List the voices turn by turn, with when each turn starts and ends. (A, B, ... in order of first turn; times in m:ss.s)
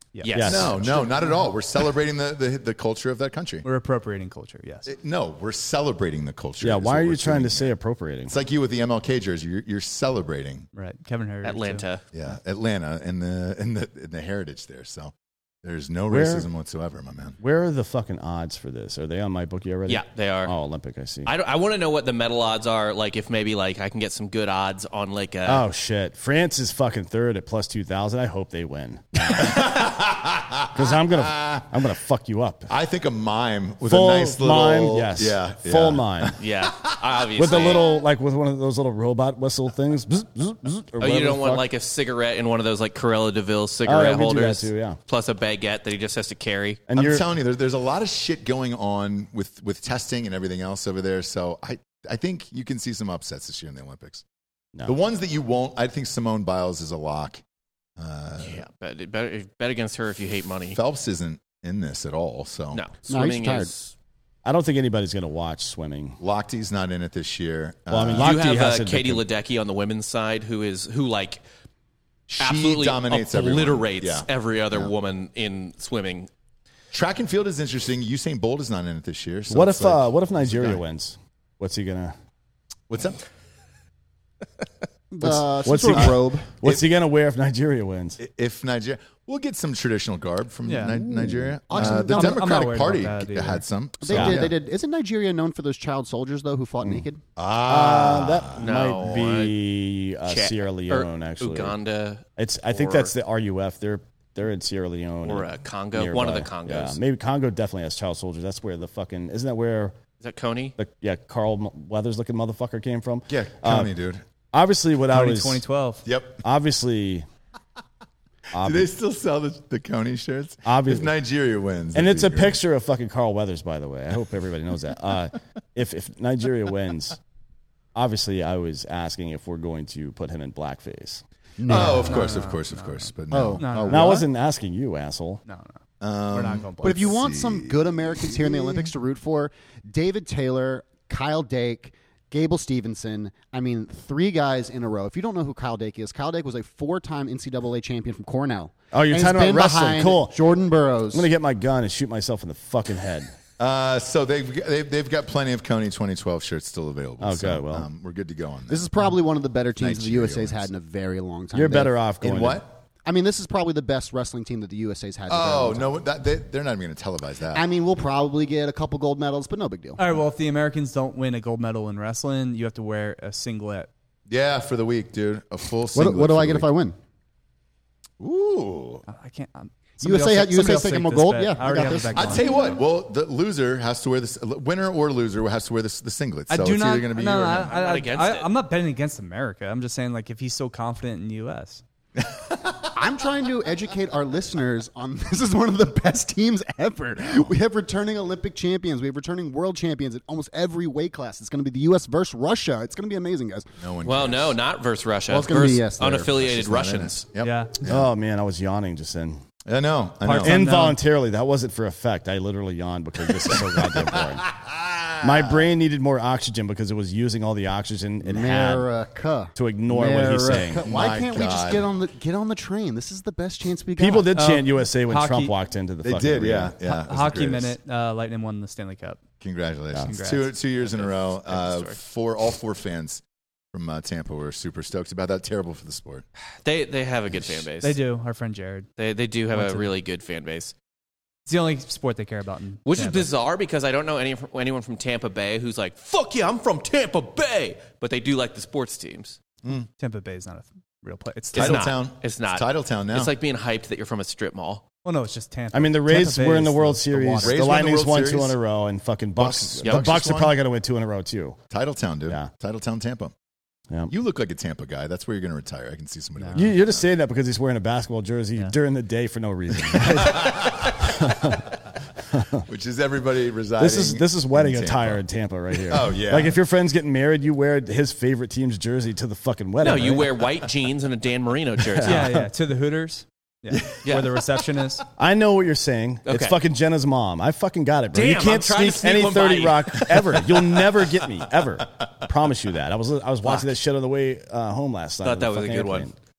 0:00.1-0:01.3 A
0:00.2-0:01.1 B
0:00.3-0:00.8 C
0:00.4-0:03.6 D
0:03.6-0:04.9 A
0:04.8-0:07.7 D
0:06.6-0:08.4 C
0:08.3-0:10.7 D
0:10.7-0:11.9 A
0:11.4-0:12.0 B
0:12.1-0:17.4 D
0:16.1-0:16.4 C
0:17.4-0:21.3 C
0:19.9-0:20.5 B
0:21.2-0:25.6 B
0:25.4-0:29.9 C
0:29.3-0:31.7 D
0:30.7-0:32.7 C
0:32.7-0:37.8 D
0:33.8-0:36.3 C
0:36.4-0:37.9 B
0:37.4-0:41.7 C
0:41.0-0:46.8 B
0:43.8-0:45.0 C
0:46.9-0:47.3 C
0:46.9-0:54.2 D
0:54.8-0:57.4 D
0:58.0-0:58.6 D
0:58.4-1:00.8 B
1:00.7-1:02.8 D
1:02.7-1:03.9 B
1:03.1-1:03.7 E
1:04.4-1:06.2 C
1:06.2-1:08.3 D
1:07.9-1:09.2 C
1:08.2-1:11.4 B
1:12.3-1:14.9 D
1:12.4-1:16.3 B
1:16.9-1:20.8 D
1:19.5-1:22.1 C
1:22.9-1:23.2 D
1:25.1-1:26.6 E
1:25.2-1:28.2 C
1:25.8-1:26.1 D
1:28.2-1:34.5 D
1:30.6-1:31.0 A
1:31.0-1:31.6 C
1:31.7-1:32.4 E
1:31.7-1:33.6 A
1:34.0-1:37.2 E
1:34.1-1:34.5 C
1:37.4-1:38.6 D
1:37.6-1:41.8 C
1:38.6-1:39.6 B
1:40.2-1:43.1 B
1:42.4-1:49.9 C
1:45.2-1:47.0 B
1:50.2-1:50.7 B
1:50.8-1:53.9 C
1:53.3-1:54.2 D
1:54.5-1:55.6 C
1:55.1-1:56.0 A
1:56.0-1:56.4 D
1:56.4-1:57.2 C
1:58.5-1:58.9 C
1:58.6-2:02.6 D
2:00.6-2:01.1 C
2:01.9-2:07.2 C
2:07.9-2:11.2 C
2:11.6-2:12.4 E
2:11.7-2:14.2 D
2:11.8-2:14.2 A
2:13.3-2:14.0 E
2:13.9-2:15.4 C
2:15.4-2:17.2 A
2:16.0-2:18.8 D
2:16.8-2:31.3 E
2:28.9-2:30.4 C
2:31.1-2:33.3 C
2:33.6-2:38.9 D
2:37.2-2:37.9 C
2:38.7-2:42.1 E
2:39.8-2:40.7 D
2:41.5-2:42.6 C
2:42.2-2:42.8 D
2:43.0-2:46.0 E
2:45.3-2:47.6 D
2:47.5-2:50.0 E
2:50.0-2:53.9 A
2:54.3-2:56.7 D
2:55.9-2:57.0 E
2:58.2-2:59.0 D
2:59.0-3:02.8 A
3:00.0-3:02.7 E
3:02.1-3:07.8 D
3:06.5-3:11.8 A
3:07.7-3:08.5 B
3:12.2-3:12.9 D
3:13.0-3:23.6 E
3:23.8-3:24.6 D
3:24.0-3:27.2 B
3:25.3-3:28.1 D
3:25.6-3:26.2 E
3:27.4-3:27.7 A
3:27.8-3:29.4 C
3:29.6-3:30.7 D
3:30.2-3:31.0 A
3:30.4-3:34.4 C
3:33.4-3:35.7 D
3:35.2-3:38.9 C
3:38.2-3:44.3 E
3:39.6-3:40.8 C
3:40.8-3:41.9 D
3:44.0-3:46.7 C
3:44.3-3:45.5 A
3:46.0-3:47.8 D
3:46.8-3:49.2 A
3:49.4-3:53.2 D
3:50.0-3:50.6 A
3:50.8-3:52.0 B
3:53.7-3:56.2 D
3:56.4-3:58.0 B
3:57.8-3:58.9 A
3:59.0-4:00.7 B
3:59.5-3:59.9 A
4:01.4-4:03.3 A
4:02.8-4:09.4 B
4:10.0-4:11.8 A
4:11.5-4:14.8 B
4:11.6-4:13.3 D
4:15.0-4:17.1 A
4:15.7-4:21.6 C
4:17.1-4:17.5 E
4:17.4-4:18.6 D
4:19.4-4:20.6 D
4:19.8-4:20.1 B
4:21.7-4:23.3 D
4:24.1-4:27.0 D
4:26.4-4:26.7 A
4:26.5-4:32.6 C
4:29.9-4:31.6 D
4:32.6-4:35.2 D
4:33.8-4:40.5 C
4:35.8-4:36.6 D
4:39.8-4:42.3 B
4:41.8-4:42.5 C
4:42.0-4:45.0 A
4:43.7-4:44.0 D
4:44.0-4:44.3 B
4:45.2-4:56.2 C
4:46.2-4:46.6 B
4:48.1-4:50.8 B
4:53.4-4:53.7 B
4:55.2-4:56.1 B